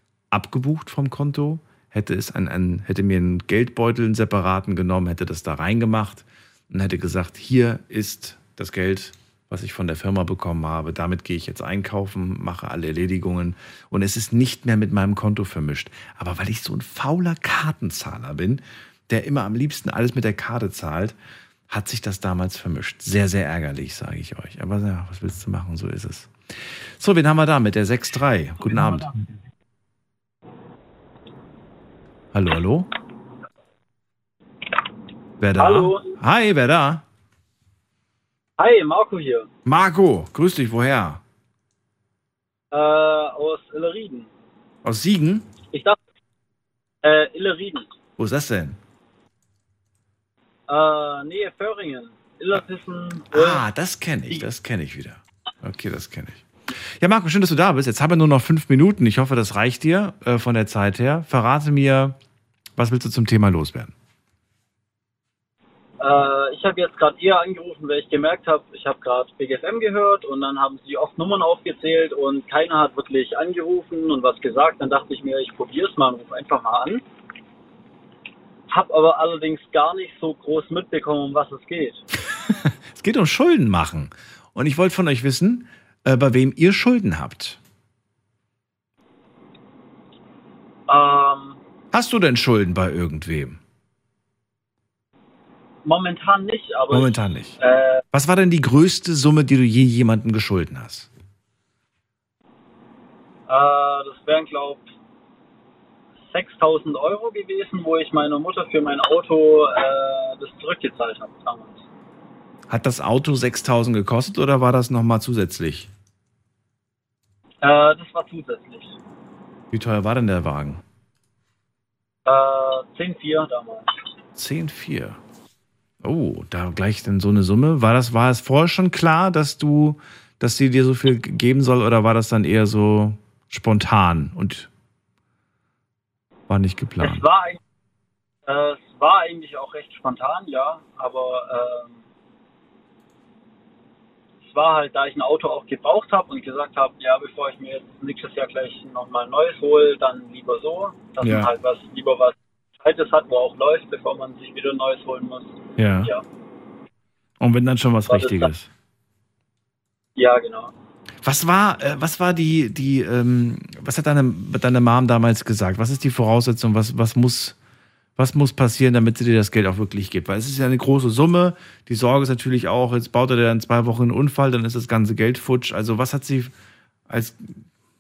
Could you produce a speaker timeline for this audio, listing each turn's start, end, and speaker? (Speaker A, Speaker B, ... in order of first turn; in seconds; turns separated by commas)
Speaker A: 0.3-21.2, Speaker A: 21.7-29.2, Speaker B: 28.6-29.2, Speaker A: 32.3-32.9, Speaker A: 35.4-37.0, Speaker B: 35.6-36.1, Speaker B: 38.6-39.5, Speaker A: 39.6-41.2, Speaker B: 42.7-44.3, Speaker A: 44.8-45.5, Speaker B: 45.7-46.0, Speaker B: 47.0-47.9, Speaker A: 48.2-48.8, Speaker B: 50.7-53.6, Speaker A: 53.3-62.2, Speaker A: 62.8-63.9, Speaker B: 66.0-77.0, Speaker B: 78.7-82.0, Speaker A: 82.3-87.6, Speaker B: 90.9-91.6, Speaker A: 91.9-93.6, Speaker B: 95.8-98.0, Speaker A: 96.9-97.6, Speaker A: 98.1-101.1, Speaker B: 103.5-104.8, Speaker B: 106.3-111.8, Speaker A: 112.7-115.9, Speaker B: 117.6-119.0, Speaker A: 119.7-120.8, Speaker B: 122.3-123.9, Speaker A: 124.3-125.2, Speaker A: 126.0-134.7, Speaker A: 136.5-137.3, Speaker B: 137.0-137.6, Speaker B: 138.5-142.0, Speaker B: 144.4-156.2, Speaker A: 151.2-151.5, Speaker A: 155.8-156.1, Speaker A: 157.4-158.7, Speaker B: 158.1-158.5, Speaker B: 160.2-160.7, Speaker A: 161.2-167.6, Speaker A: 168.2-176.5, Speaker A: 177.1-177.6